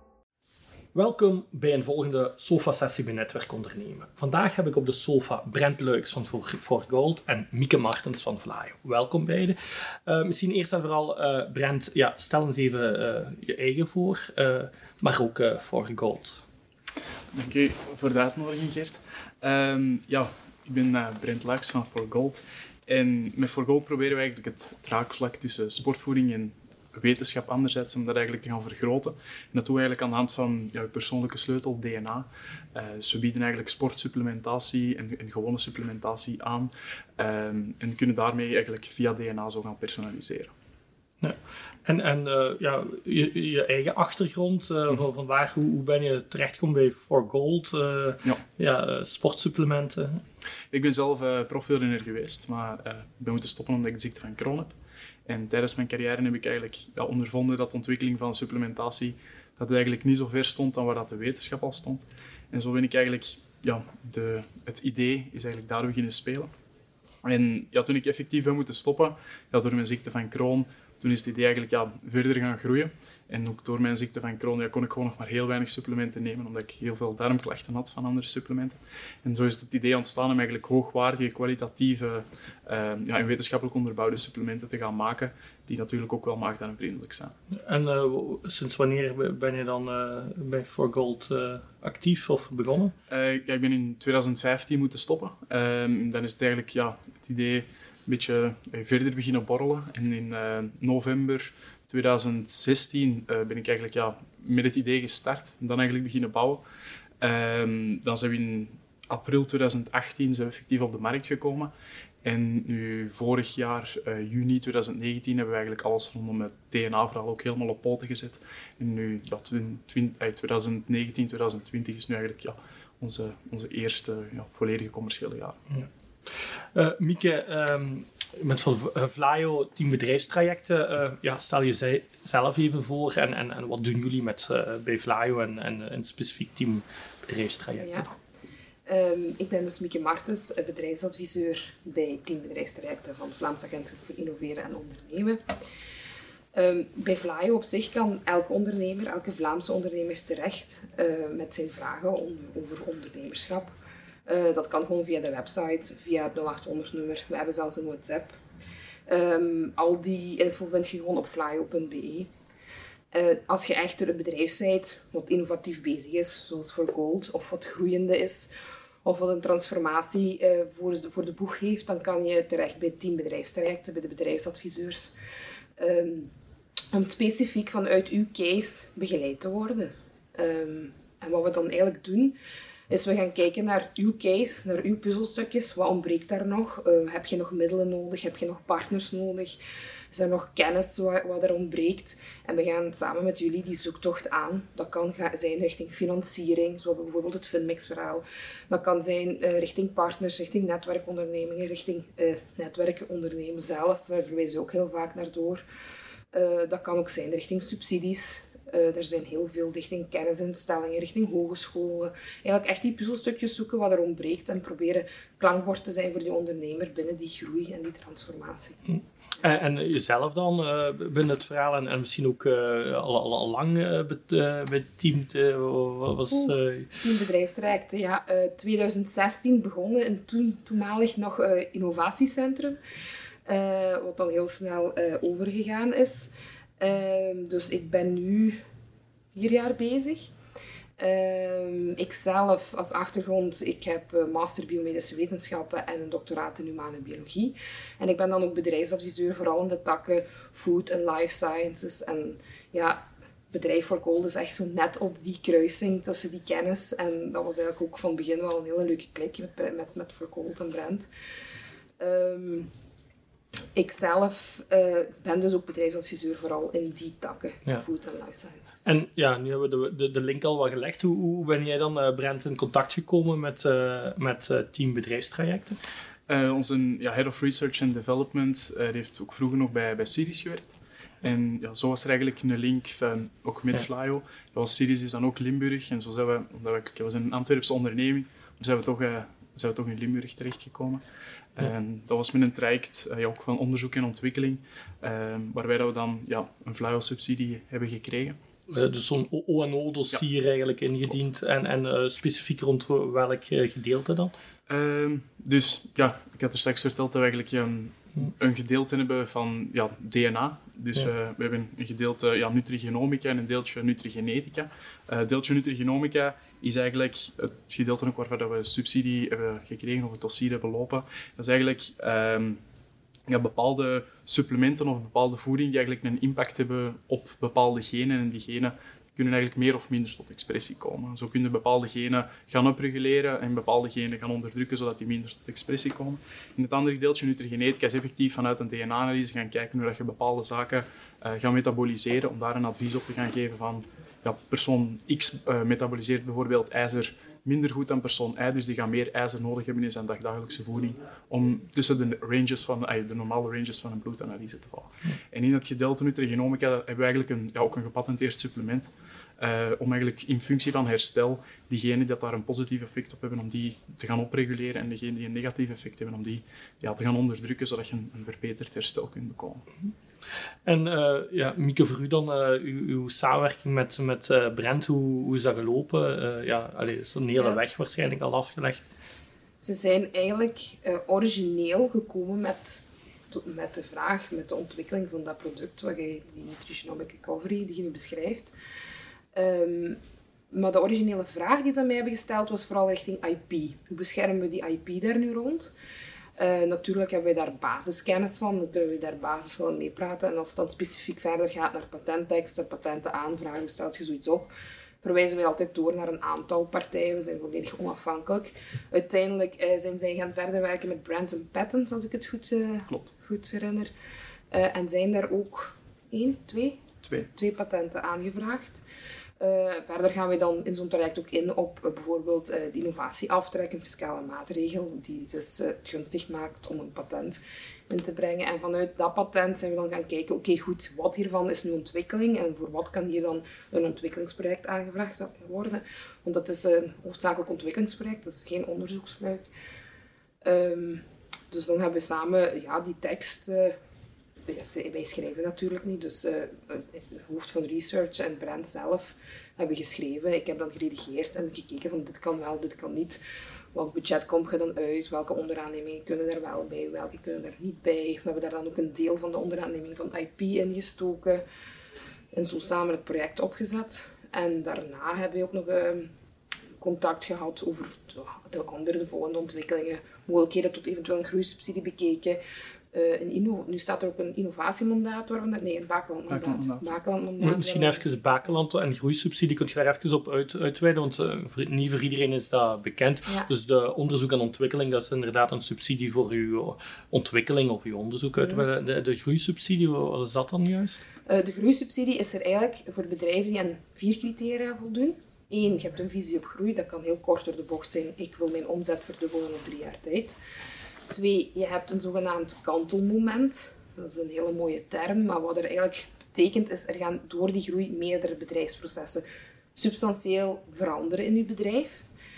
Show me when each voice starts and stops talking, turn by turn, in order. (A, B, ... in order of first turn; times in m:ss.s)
0:00.9-0:16.4 A
0:17.3-0:40.5 B
0:41.2-0:50.2 A
0:50.7-0:54.7 B
0:55.2-1:06.5 B
1:07.2-1:27.3 B
1:27.6-1:32.9 A
1:33.1-1:46.6 B
1:47.2-1:51.7 B
1:52.2-2:05.6 B
2:06.7-2:18.1 A
2:17.8-2:18.1 C
2:18.8-2:25.4 C
2:26.5-2:33.7 C
2:34.2-2:38.4 C
2:39.1-2:42.3 C
2:43.1-2:48.5 C
2:49.0-2:55.1 C
2:55.8-2:56.3 C
2:56.9-3:02.4 C
3:02.9-3:09.6 C
3:10.1-3:25.6 C
3:26.3-3:38.8 C
3:38.9-3:47.1 A
3:47.0-3:52.8 C
3:53.4-3:58.6 C
3:59.3-4:00.3 C
4:01.0-4:21.1 C
4:22.0-4:22.7 C
4:23.7-4:28.8 C
4:28.8-4:35.8 A
4:36.3-4:51.0 B
4:51.5-4:58.4 B
4:58.7-5:04.3 A
5:04.7-5:22.6 B
5:23.3-6:09.6 B
6:10.6-6:18.8 A
6:19.6-6:28.5 C
6:29.3-6:30.0 C
6:30.5-6:35.7 C
6:36.4-6:44.5 C
6:45.0-6:53.9 C
6:54.5-6:56.8 C
6:57.0-6:57.3 B
6:57.3-6:58.8 C
6:59.4-7:19.5 C
7:20.4-7:23.7 C
7:24.5-7:33.2 C
7:33.7-7:41.4 C
7:42.3-7:46.1 C
7:46.8-7:52.4 C
7:52.9-7:58.6 C
7:56.3-7:56.9 B
7:57.4-8:11.0 A
8:11.2-8:20.4 C
8:21.1-8:29.2 C
8:29.8-8:32.1 C